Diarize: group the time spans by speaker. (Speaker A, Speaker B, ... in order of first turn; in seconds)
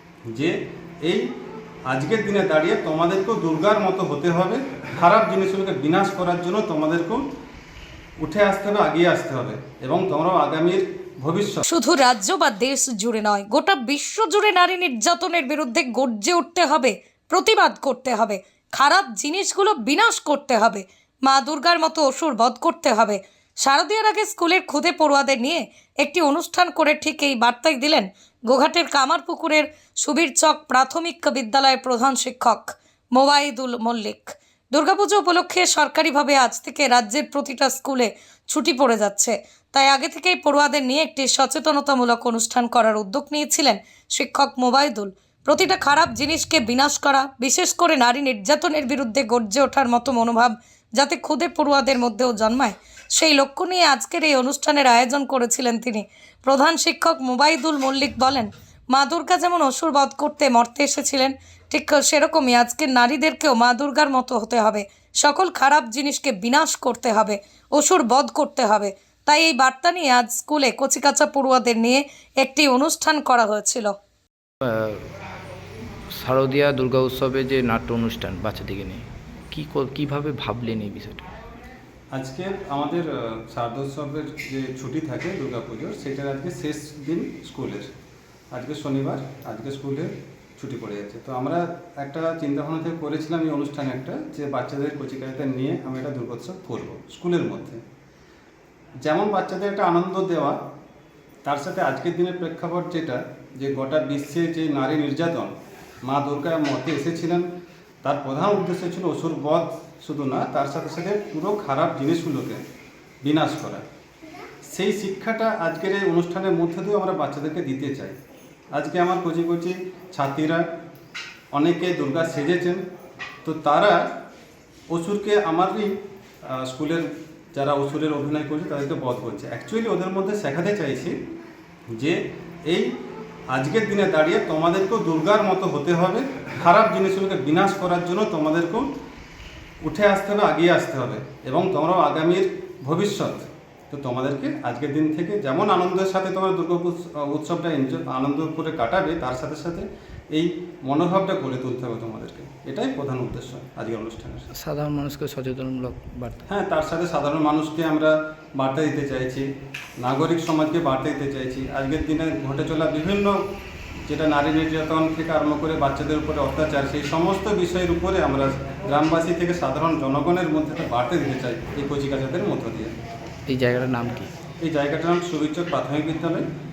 Speaker A: 1.9-7.2, 8.2-11.6, 82.1-87.9, 88.5-97.8, 99.0-100.6, 101.5-105.5, 106.1-107.5, 108.0-112.6, 113.2-113.8, 114.7-118.2, 118.7-120.7, 121.5-122.8, 123.4-124.1, 124.9-125.9, 126.5-131.2, 131.9-132.9, 133.5-138.9, 139.8-154.5, 156.5-159.5, 160.0-163.4, 164.1-172.9, 174.6-176.4
Speaker B: 11.7-74.0
Speaker C: 74.6-75.0, 76.1-81.2, 154.6-156.4, 173.5-174.3